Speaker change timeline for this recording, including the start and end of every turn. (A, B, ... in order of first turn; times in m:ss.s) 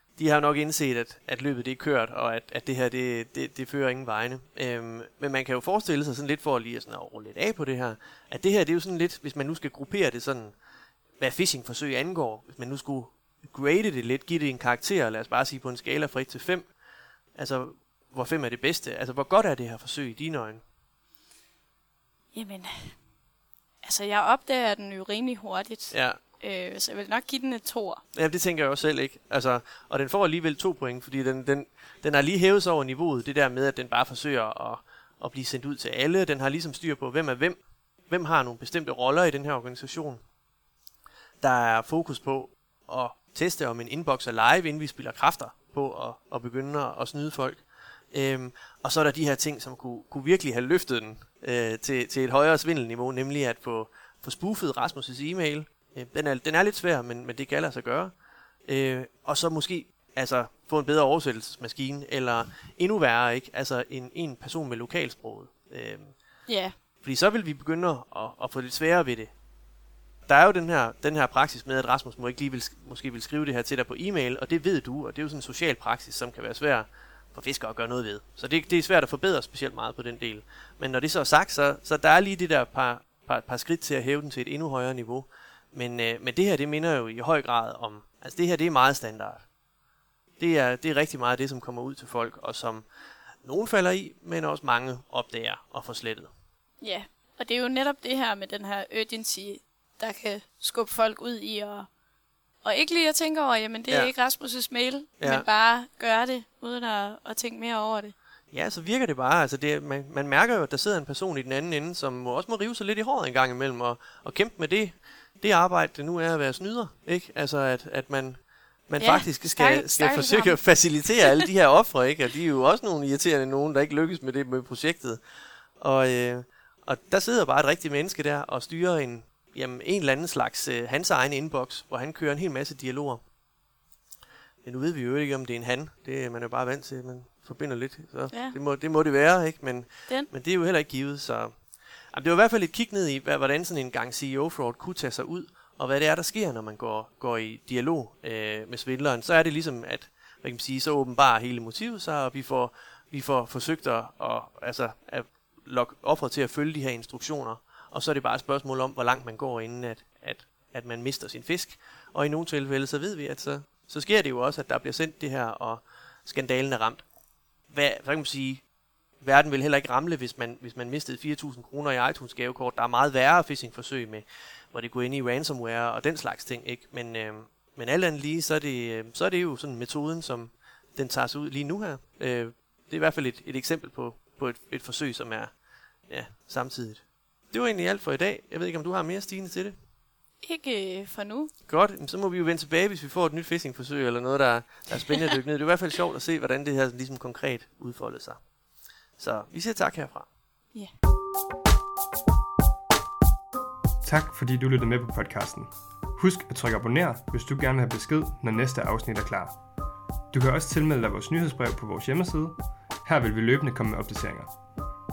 0:00.2-0:10.5 A
0:11.2-0:16.7 A
0:17.4-0:20.6 A
0:22.3-0:23.0 B
0:23.8-0:28.0 B
0:25.9-0:26.2 A
0:28.1-0:40.2 A
0:41.4-0:47.6 A
0:48.1-0:58.1 A
0:58.7-1:06.1 A
1:06.5-1:06.7 B
1:07.0-1:09.3 A
1:10.3-1:29.4 A
1:30.4-1:32.8 A
1:33.4-1:36.3 A
1:36.8-1:41.9 B
1:42.6-1:48.1 B
1:45.2-1:45.5 A
1:48.5-1:58.4 A
1:58.9-2:05.2 A
1:59.0-2:00.6 B
2:05.8-2:13.2 A
2:14.6-2:21.5 A
2:18.3-2:18.6 B
2:22.1-2:47.0 A
2:47.7-2:48.6 A
2:49.2-3:05.5 A
3:06.1-3:09.7 A
3:10.4-3:11.5 B
3:11.7-3:18.4 A
3:19.2-3:20.3 A
3:24.0-3:29.5 C
3:30.3-3:34.5 C